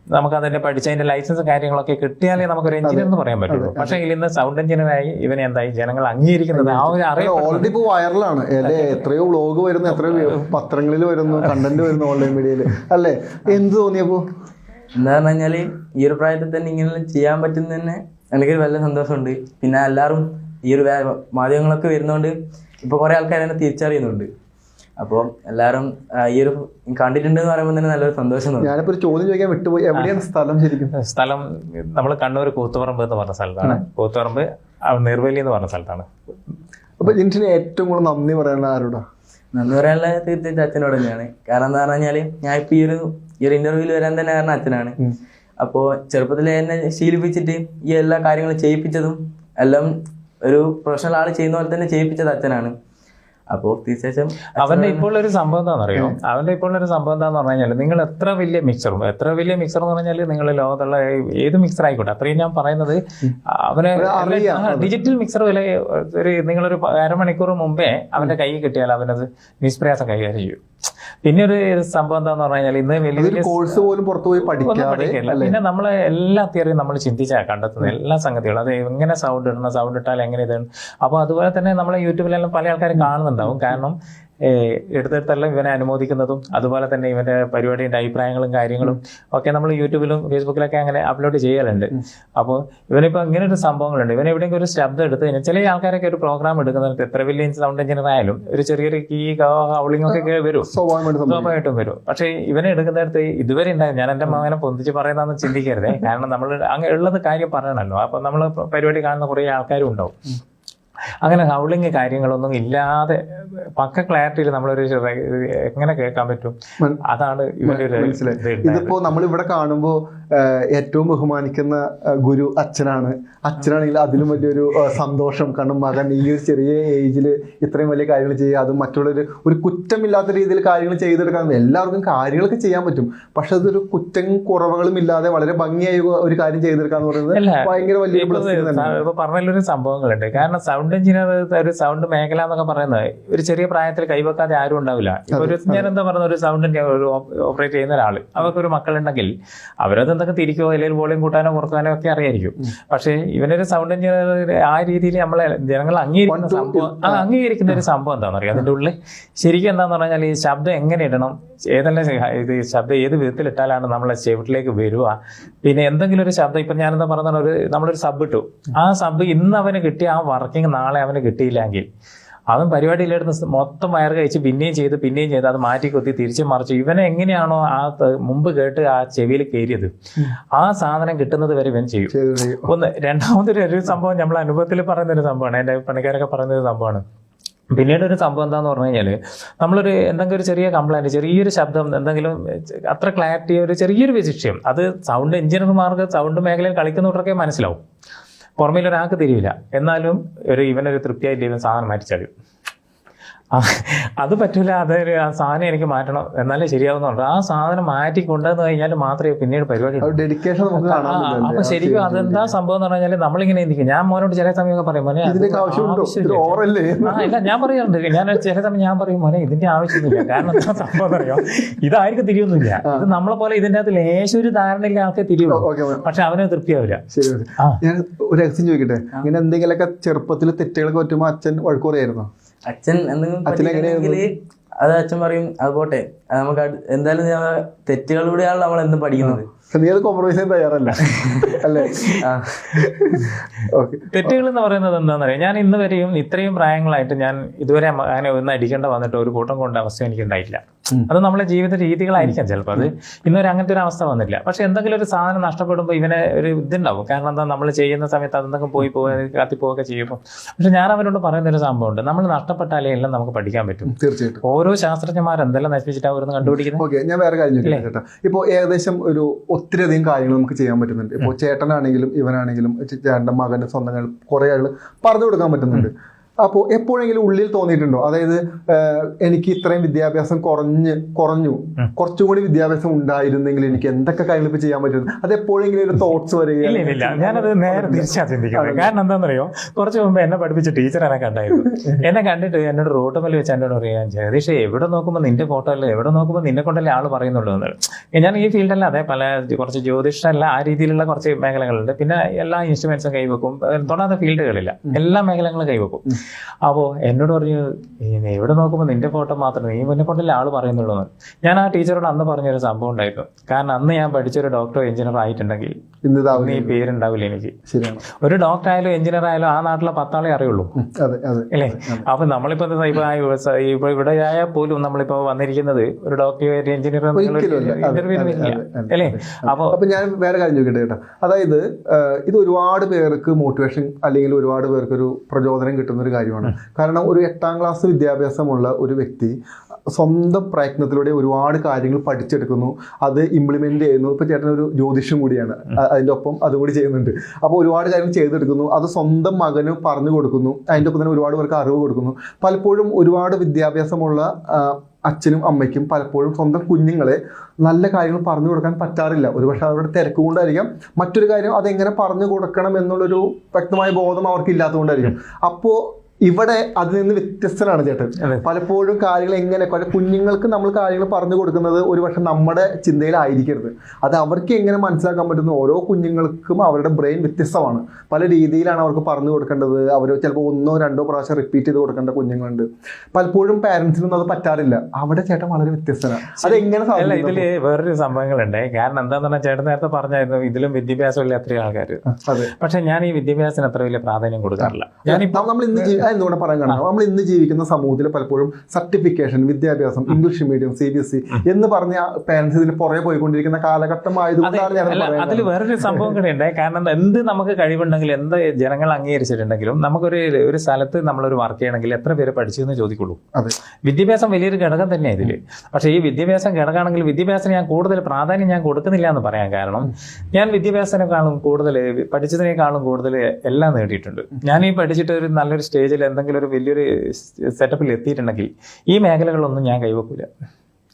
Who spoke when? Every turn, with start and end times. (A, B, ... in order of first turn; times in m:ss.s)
0:00.1-0:07.7 A
0:02.8-0:04.0 B
0:06.5-0:14.2 B
0:08.6-0:09.1 A
0:09.9-0:10.5 A
0:11.4-0:12.2 A
0:15.0-0:24.3 C
0:25.0-0:28.7 C
0:28.6-0:30.9 B
0:31.0-0:36.1 A
0:37.0-0:39.0 B
0:39.5-0:45.0 C
0:45.6-0:49.9 C
0:50.4-0:52.7 C
0:53.5-0:55.0 C
0:54.6-1:10.6 A
1:04.0-1:04.9 B
1:11.2-1:13.8 A
1:13.2-1:15.6 B
1:14.4-1:40.7 A
1:23.4-1:23.7 B
1:40.1-1:41.5 B
1:41.2-1:50.2 A
1:51.2-1:59.0 A
1:57.6-2:19.0 B
2:17.3-2:51.8 A
2:25.3-2:25.8 B
2:36.3-2:37.3 B
2:52.5-2:59.9 A
3:00.6-3:02.1 A
3:02.1-3:02.7 B
3:02.6-3:07.0 A
3:07.7-3:17.8 A
3:18.6-3:22.3 A
3:23.5-3:47.0 A
3:30.0-3:32.5 B
3:35.2-3:37.3 B
3:40.1-3:40.6 B
3:45.5-3:46.0 B
3:47.1-3:52.3 B
3:52.7-3:59.4 C
3:53.4-3:54.2 B
3:59.2-4:04.3 B
4:01.1-4:01.9 A
4:02.2-4:02.6 C
4:04.1-4:23.9 A
4:12.2-4:12.9 B
4:23.9-4:24.4 B
4:24.4-4:26.8 A
4:26.4-4:48.9 B
4:46.6-5:15.7 A
5:16.0-5:16.8 B
5:16.4-5:17.5 A
5:17.7-5:18.0 B
5:18.2-5:20.7 A
5:20.8-5:22.0 B
5:21.5-5:29.8 A
5:27.1-5:39.4 B
5:39.9-6:27.5 B
6:26.4-6:36.0 A
6:32.1-6:32.5 B
6:34.6-6:46.1 B
6:44.4-6:53.2 A
6:53.8-7:10.3 A